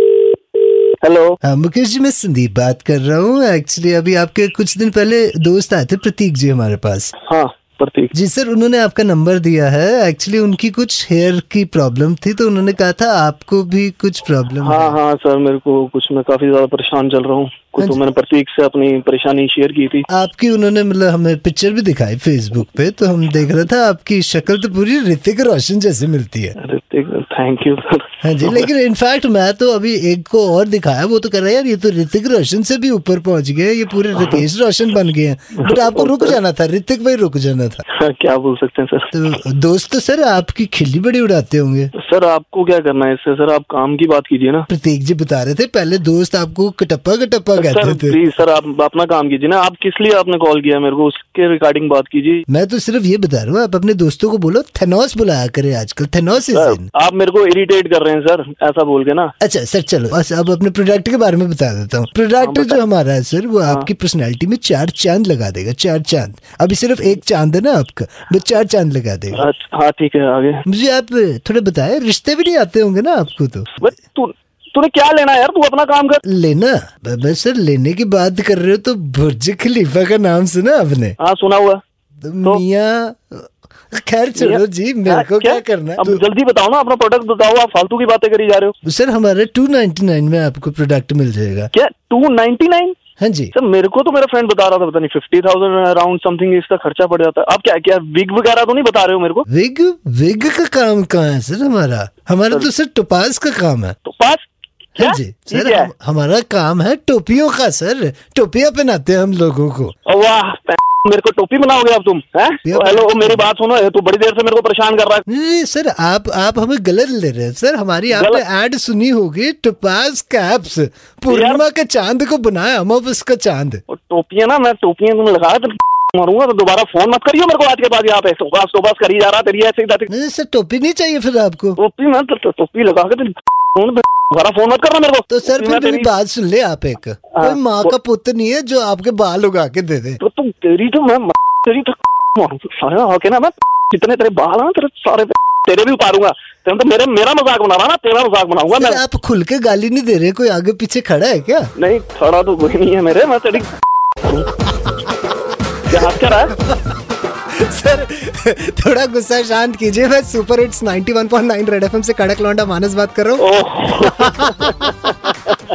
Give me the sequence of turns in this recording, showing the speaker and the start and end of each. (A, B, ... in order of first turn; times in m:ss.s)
0:01.0-0:01.4 A
0:01.4-0:07.1 B
0:07.2-0:08.1 A
0:08.1-0:15.0 B
0:14.6-0:20.1 A
0:20.1-0:26.6 B
0:26.6-0:28.7 A
0:28.2-0:37.8 B
0:34.1-0:34.4 A
0:35.6-0:36.4 A
0:37.9-0:39.1 A
0:39.1-0:41.9 B
0:42.0-0:44.7 A
0:44.7-0:48.2 B
0:47.6-0:52.4 A
0:52.5-0:56.9 B
0:56.4-0:59.3 A
0:59.4-1:09.4 B
1:02.4-1:02.8 A
1:09.3-1:10.6 A
1:10.7-1:13.9 B
1:13.8-1:16.2 A
1:16.2-1:21.2 B
1:21.2-1:21.8 A
1:22.2-1:26.2 B
1:24.4-1:28.8 A
1:28.8-1:31.7 B
1:31.7-1:33.0 A
1:33.2-1:33.5 B
1:33.5-1:39.5 A
1:39.5-1:44.0 B
1:44.0-1:44.4 A
1:45.0-1:49.9 B
1:45.0-1:45.9 A
1:50.1-1:55.2 A
1:52.6-1:53.4 B
1:55.3-2:03.8 B
1:58.1-1:58.4 A
2:01.3-2:01.6 A
2:03.9-2:10.1 A
2:10.1-2:11.8 B
2:11.8-2:16.1 A
2:15.3-2:20.2 B
2:17.3-2:17.9 A
2:20.2-2:29.0 A
2:28.7-2:31.7 B
2:31.8-2:33.7 A
2:34.2-2:34.5 A
2:35.9-2:36.6 A
2:37.5-2:43.4 B
2:43.4-2:45.6 A
2:44.0-2:45.2 B